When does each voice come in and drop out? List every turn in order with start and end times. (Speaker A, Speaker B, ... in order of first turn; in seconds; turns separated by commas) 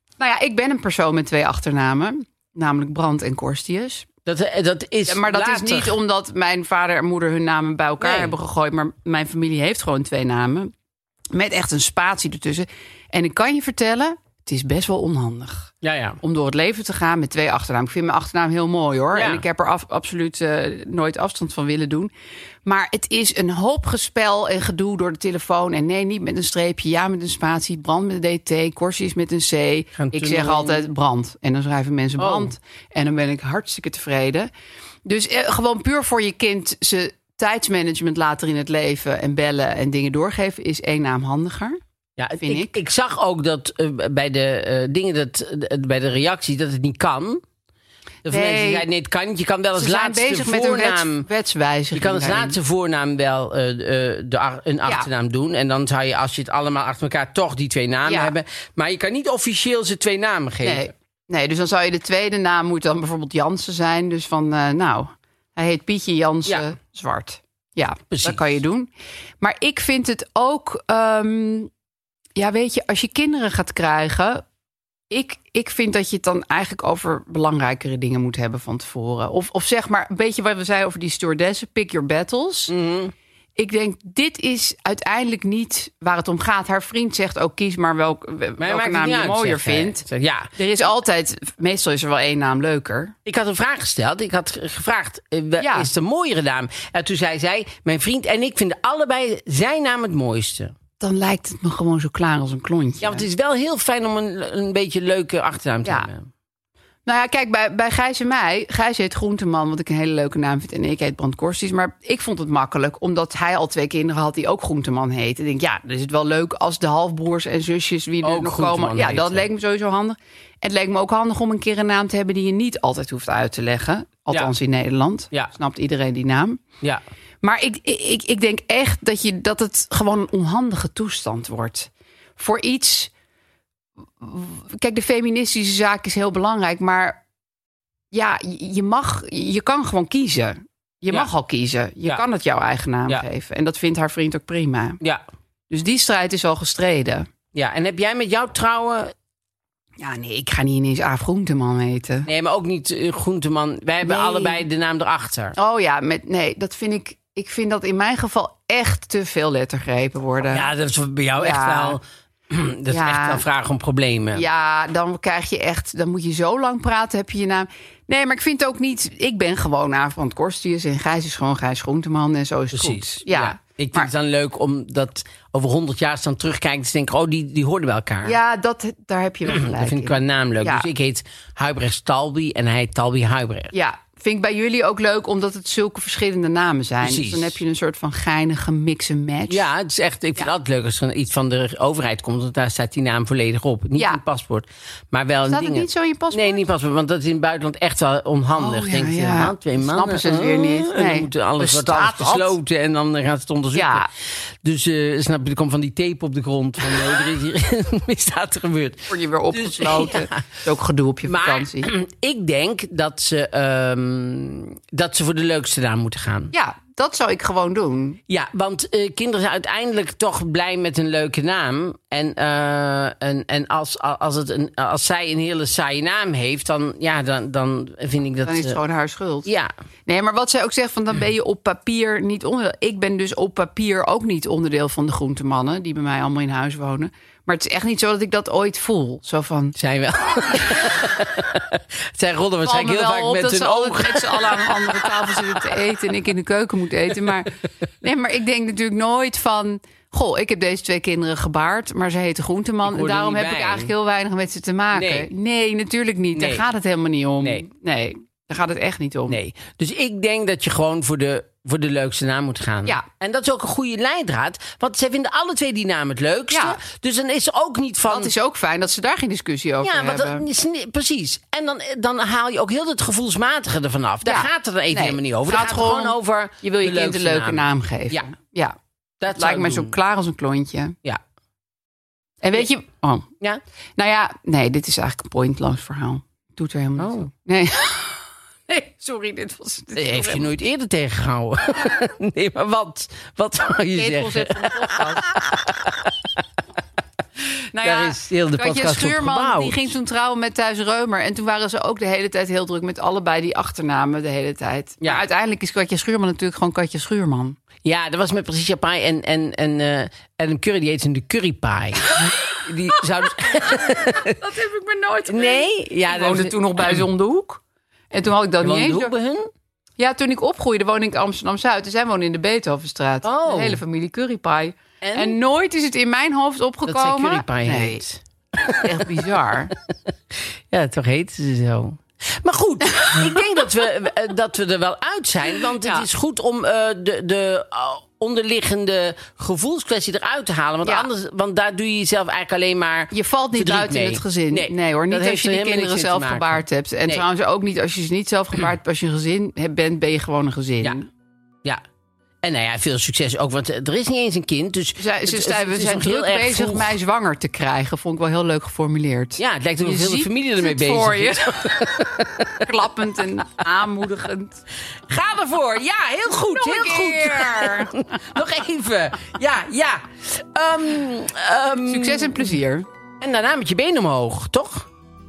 Speaker A: 0.2-4.0, Speaker B: 4.3-6.0, Speaker A: 5.1-10.7, Speaker B: 8.0-8.3, Speaker A: 11.4-15.7, Speaker B: 15.8-16.2, Speaker A: 16.2-22.1, Speaker B: 19.1-19.5, Speaker A: 22.7-34.5, Speaker B: 29.9-30.9, Speaker B: 32.2-32.5, Speaker A: 35.1-41.8, Speaker B: 42.2-47.4, Speaker B: 48.2-51.3, Speaker A: 48.3-48.9, Speaker A: 49.8-52.5, Speaker B: 51.9-60.9, Speaker A: 60.6-68.9, Speaker B: 68.1-68.6, Speaker A: 69.4-71.7, Speaker A: 72.4-74.4, Speaker A: 75.1-82.7, Speaker B: 82.7-83.1, Speaker A: 83.6-90.0, Speaker B: 88.6-90.5, Speaker A: 90.6-93.1, Speaker B: 93.2-100.7, Speaker A: 95.6-95.9, Speaker A: 101.0-103.2, Speaker B: 103.0-106.3, Speaker A: 107.1-126.6, Speaker B: 118.2-119.5, Speaker A: 127.4-133.1, Speaker A: 134.2-137.2, Speaker A: 138.1-145.0, Speaker A: 145.7-147.2, Speaker B: 147.5-149.1, Speaker A: 150.0-152.2, Speaker B: 152.3-155.6, Speaker A: 154.2-154.6, Speaker A: 155.6-160.6, Speaker B: 160.5-164.5, Speaker A: 161.4-161.9, Speaker A: 162.9-163.4, Speaker A: 164.4-174.0, Speaker B: 172.7-178.4, Speaker A: 178.2-180.8, Speaker B: 179.5-183.7, Speaker A: 183.8-189.6, Speaker B: 187.0-187.6, Speaker B: 189.5-204.1, Speaker A: 195.5-196.5, Speaker A: 198.6-202.5, Speaker B: 204.6-210.5, Speaker A: 209.1-211.9, Speaker B: 211.2-216.5, Speaker A: 216.5-218.2, Speaker B: 218.3-228.8, Speaker A: 228.5-229.4, Speaker B: 229.5-229.7, Speaker A: 230.1-239.8, Speaker B: 239.8-245.8, Speaker A: 242.7-247.5, Speaker A: 248.1-259.3, Speaker B: 252.8-253.9, Speaker B: 254.9-255.3, Speaker B: 256.3-256.6, Speaker B: 257.4-257.7, Speaker B: 259.3-268.3, Speaker A: 268.2-270.4, Speaker B: 269.8-278.3, Speaker A: 274.3-276.1, Speaker A: 276.6-278.7, Speaker B: 279.2-279.9, Speaker A: 279.4-280.9, Speaker A: 282.4-283.2, Speaker A: 284.0-288.2, Speaker B: 287.0-287.3, Speaker A: 288.7-290.4, Speaker B: 289.9-296.3, Speaker A: 294.0-295.2, Speaker A: 297.8-307.6, Speaker B: 297.8-299.9, Speaker B: 307.9-314.4, Speaker A: 314.5-317.6, Speaker B: 315.3-317.1, Speaker A: 318.1-319.1, Speaker B: 318.6-319.5, Speaker A: 320.0-328.0, Speaker B: 323.2-323.8, Speaker B: 325.0-325.4, Speaker B: 326.9-329.4, Speaker A: 328.9-329.7, Speaker B: 330.4-347.2, Speaker A: 343.1-351.0, Speaker B: 352.4-357.0, Speaker A: 355.0-361.5, Speaker B: 359.4-362.7, Speaker A: 362.7-364.5, Speaker B: 365.1-372.6, Speaker A: 366.6-367.9, Speaker A: 371.9-372.8, Speaker B: 373.2-374.9